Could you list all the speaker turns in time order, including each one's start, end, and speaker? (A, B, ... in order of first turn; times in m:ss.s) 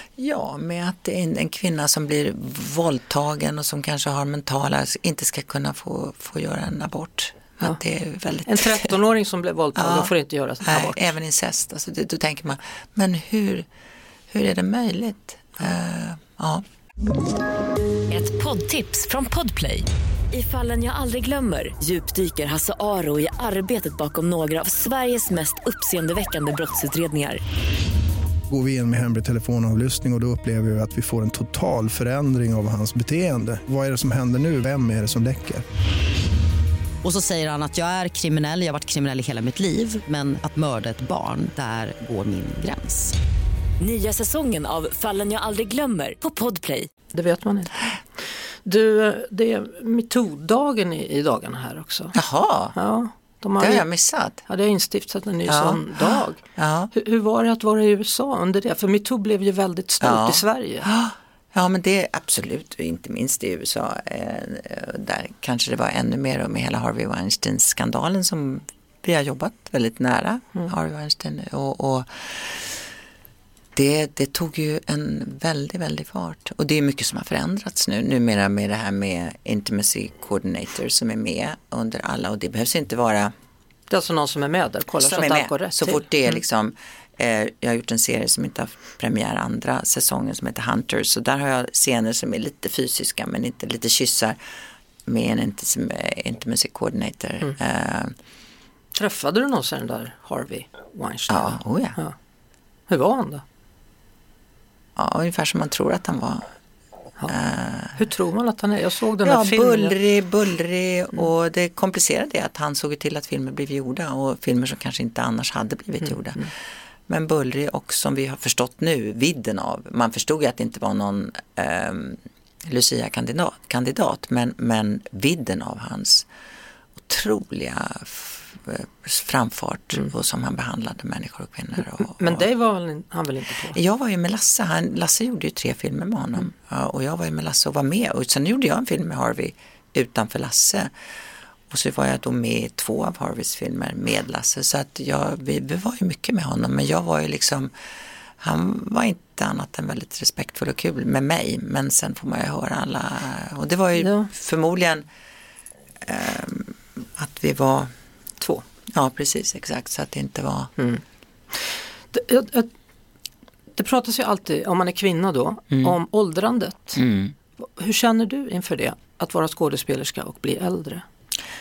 0:00.2-0:08.9 A
0:08.4-0:11.1 B
0:09.7-0:13.7 A
0:14.3-0:16.6 A
0:18.1-0:27.4 C
0:28.5-0:35.6 D
0:37.0-0:43.1 E
0:43.8-0:46.9 C
0:47.1-0:47.7 B
0:48.6-0:52.2 B
0:52.1-0:52.7 A
0:52.7-0:53.8 B
0:53.6-0:54.4 A
0:54.4-0:56.4 B
0:55.5-0:56.9 A
0:56.9-1:00.9 B
1:00.0-1:12.8 A
1:13.7-1:23.3 A
1:23.9-1:26.1 B
1:25.0-1:34.4 A
1:35.0-1:38.1 A
1:38.9-1:42.2 B
1:41.3-1:42.0 A
1:42.9-1:43.4 B
1:45.0-1:46.4 A
1:47.3-1:48.0 A
1:47.9-1:50.0 B
1:49.2-1:56.5 A
1:57.1-2:06.3 A
2:07.0-2:12.4 A
2:12.0-2:13.8 B
2:13.7-2:20.9 A
2:21.7-2:27.7 A
2:28.4-2:35.0 A
2:34.0-2:34.3 B
2:36.0-2:37.9 A
2:38.8-2:40.7 A
2:40.8-2:41.0 B
2:41.5-2:42.7 B
2:43.7-2:47.0 B
2:47.0-2:47.3 A
2:47.6-2:51.0 B